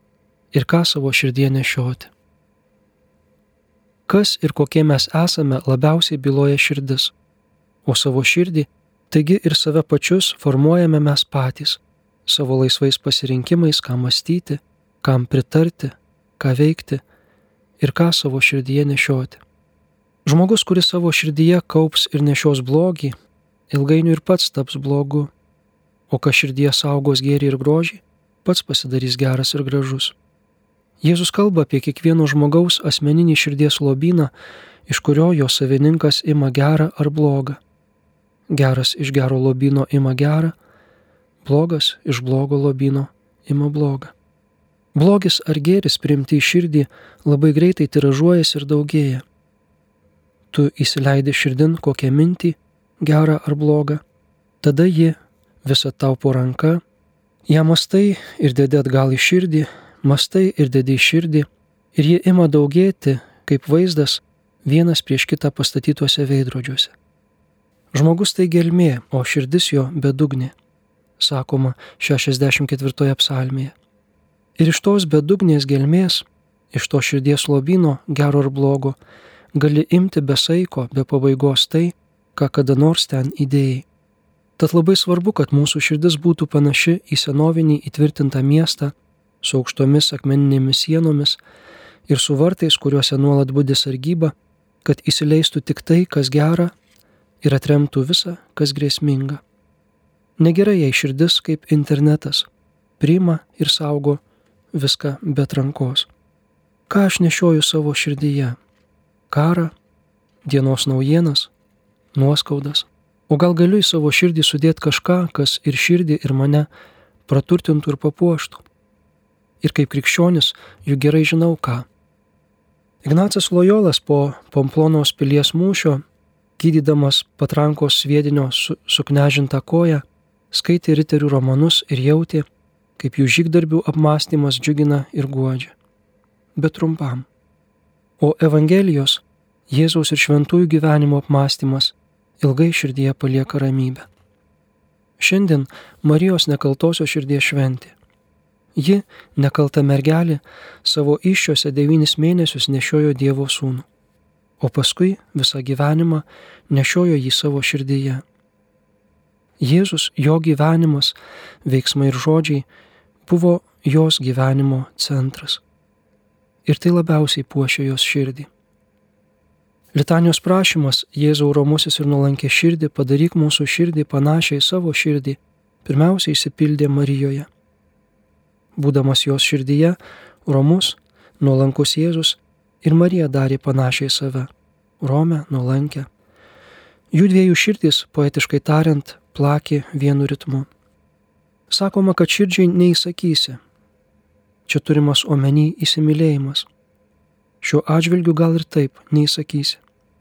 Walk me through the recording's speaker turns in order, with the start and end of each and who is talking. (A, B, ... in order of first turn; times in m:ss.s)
0:00.5-0:02.1 A
0:04.1-0:07.1 A
0:07.9-0:17.0 A
0:17.8-0:19.4 A
0:20.2-0:23.1 A
0:23.7-0:25.3 A
0:26.1-0:30.2 A
0:31.0-0:34.3 A
0:34.9-0:37.6 A
0:38.5-0:40.6 A
0:41.4-0:44.1 A
0:44.9-0:49.2 A
0:50.5-0:54.0 A
0:54.6-0:56.8 A
0:57.5-1:06.9 A
1:07.9-1:10.6 A
1:11.2-1:13.8 A
1:14.6-1:19.0 A
1:19.5-1:23.9 A
1:24.6-1:31.4 A
1:32.1-1:36.7 A
1:37.4-1:39.4 A
1:40.4-1:42.5 A
1:43.0-1:44.2 A
1:44.7-1:46.1 A
1:46.9-1:48.6 A
1:49.3-1:49.7 A
1:50.4-1:51.5 A
1:52.1-1:56.7 A
1:57.3-1:58.6 A
1:59.6-2:01.9 A
2:03.0-2:06.0 A
2:06.6-2:12.5 A
2:13.0-2:15.8 A
2:16.6-2:17.3 A
2:18.2-2:24.1 A
2:25.2-2:27.9 A
2:28.8-2:33.9 A
2:34.6-2:38.2 A
2:39.6-2:42.6 A
2:43.3-2:45.6 A
2:46.6-2:48.5 A
2:49.9-2:57.5 A
2:58.8-3:06.1 A
3:07.1-3:10.7 A
3:11.7-3:13.6 A
3:14.7-3:16.7 A
3:17.6-3:19.8 A